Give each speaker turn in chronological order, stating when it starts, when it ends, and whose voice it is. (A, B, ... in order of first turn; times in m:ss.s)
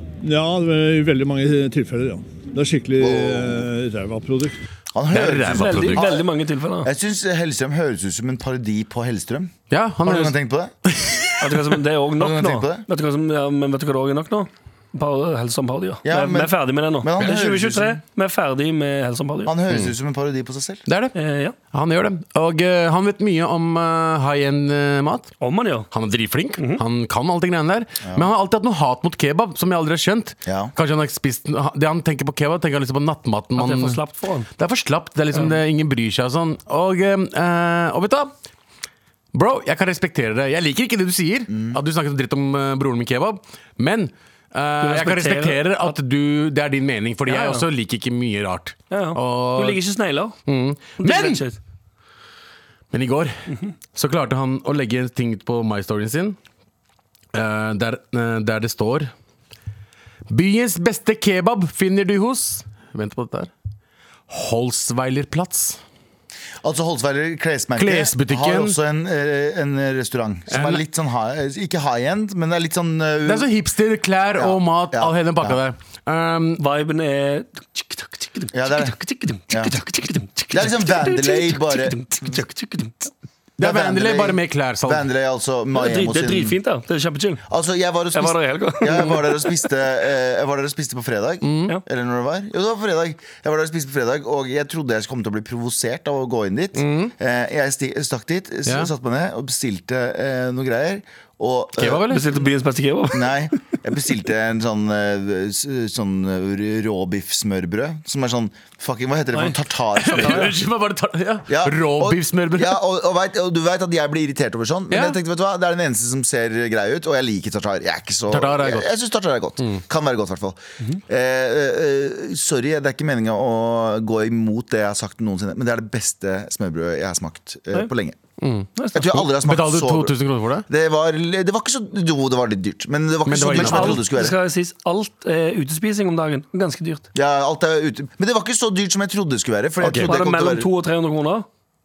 0:00.2-0:04.6 A
0:03.0-0:03.7 B
0:04.9-0:06.3 B
0:05.1-0:06.1 C
0:05.5-0:06.9 D
0:06.8-0:10.7 B
0:09.7-0:11.7 C
0:11.4-0:19.5 D
0:12.2-0:12.8 B
0:16.0-0:18.0 B
0:19.5-0:20.8 B
0:20.9-0:21.2 C
0:21.2-0:21.6 D
0:21.7-0:25.3 C
0:25.4-0:25.9 D
0:25.9-0:34.0 C
0:30.5-0:30.7 B
0:33.6-0:34.5 D
0:34.6-0:38.3 C
0:39.3-0:49.8 C
0:41.5-0:41.8 B
0:44.8-0:46.0 D
0:47.3-0:47.7 D
0:48.9-0:50.4 D
0:50.5-0:51.4 C
0:51.0-0:51.6 D
0:52.9-0:53.4 C
0:53.9-0:56.4 C
0:57.3-0:59.1 C
1:00.3-1:03.5 C
1:04.3-1:05.8 C
1:06.6-1:13.5 B
1:07.8-1:08.8 C
1:10.5-1:10.8 C
1:13.3-1:16.6 C
1:14.4-1:15.6 B
1:16.6-1:23.1 D
1:18.5-1:19.0 B
1:19.5-1:19.8 B
1:20.5-1:22.4 B
1:23.6-1:26.6 B
1:23.6-1:25.1 C
1:25.7-1:27.4 D
1:27.5-1:42.1 B
1:28.1-1:29.6 D
1:31.4-1:31.8 C
1:36.8-1:37.1 C
1:41.8-1:42.3 C
1:42.1-1:43.5 D
1:43.1-1:50.6 B
1:49.3-1:50.5 D
1:50.0-1:52.8 C
1:51.5-2:08.2 B
1:54.9-1:55.2 C
1:58.3-1:58.9 C
2:08.4-2:10.6 C
2:08.8-2:09.2 D
2:09.0-2:10.2 B
2:10.7-2:14.4 B
2:13.3-2:14.1 C
2:13.5-2:17.1 D
2:17.1-2:20.7 B
2:19.8-2:20.1 C
2:20.0-2:21.5 D